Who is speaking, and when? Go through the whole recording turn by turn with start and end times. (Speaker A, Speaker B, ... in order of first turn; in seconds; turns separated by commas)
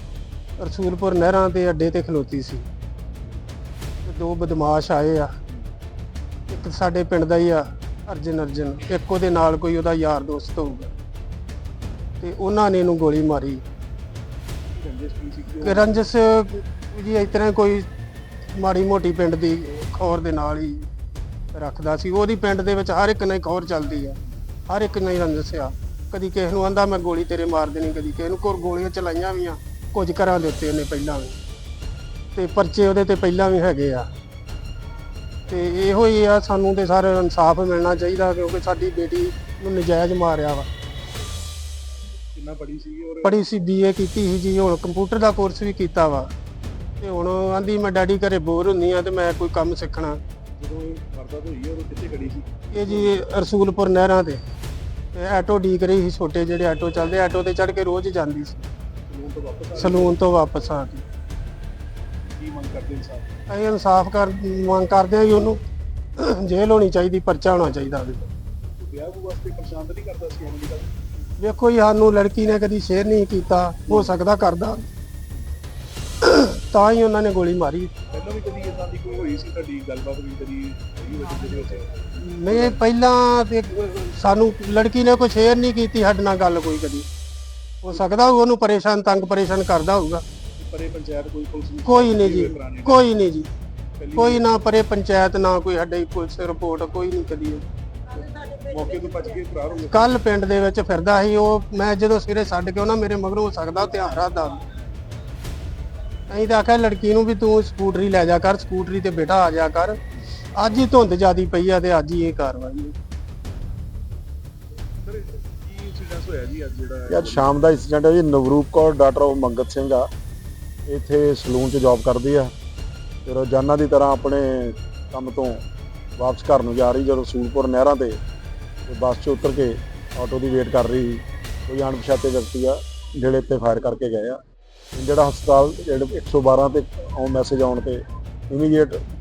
Speaker A: 0.6-2.7, Speaker A: 4.1-5.3, Speaker A: 6.5-10.9, Speaker A: 12.2-13.6, Speaker B: 14.7-16.0, Speaker A: 15.6-17.9, Speaker A: 18.6-20.9, Speaker A: 21.5-24.2, Speaker A: 24.7-31.4, Speaker A: 32.4-34.1, Speaker A: 35.5-40.7, Speaker B: 42.3-43.4, Speaker A: 43.2-46.3, Speaker A: 47.0-50.2, Speaker B: 50.6-53.2, Speaker A: 52.7-54.4, Speaker A: 55.1-58.6, Speaker B: 59.1-60.2, Speaker A: 59.8-61.0, Speaker B: 62.3-63.2, Speaker A: 63.5-65.6, Speaker A: 66.2-68.3, Speaker B: 68.8-71.0, Speaker A: 71.4-74.8, Speaker B: 73.9-74.2, Speaker A: 76.2-77.9, Speaker B: 78.1-82.8, Speaker A: 82.2-87.1, Speaker A: 87.8-90.2, Speaker B: 90.6-93.0, Speaker A: 91.9-93.5, Speaker B: 94.0-94.5, Speaker A: 94.2-97.6, Speaker B: 98.1-100.2, Speaker A: 99.9-104.6, Speaker A: 106.3-110.0, Speaker A: 110.6-112.9, Speaker B: 115.0-117.6, Speaker C: 117.1-120.1, Speaker C: 120.9-122.5, Speaker C: 123.3-125.6, Speaker C: 126.2-128.2, Speaker C: 128.9-134.4, Speaker C: 134.9-138.0, Speaker C: 138.5-138.9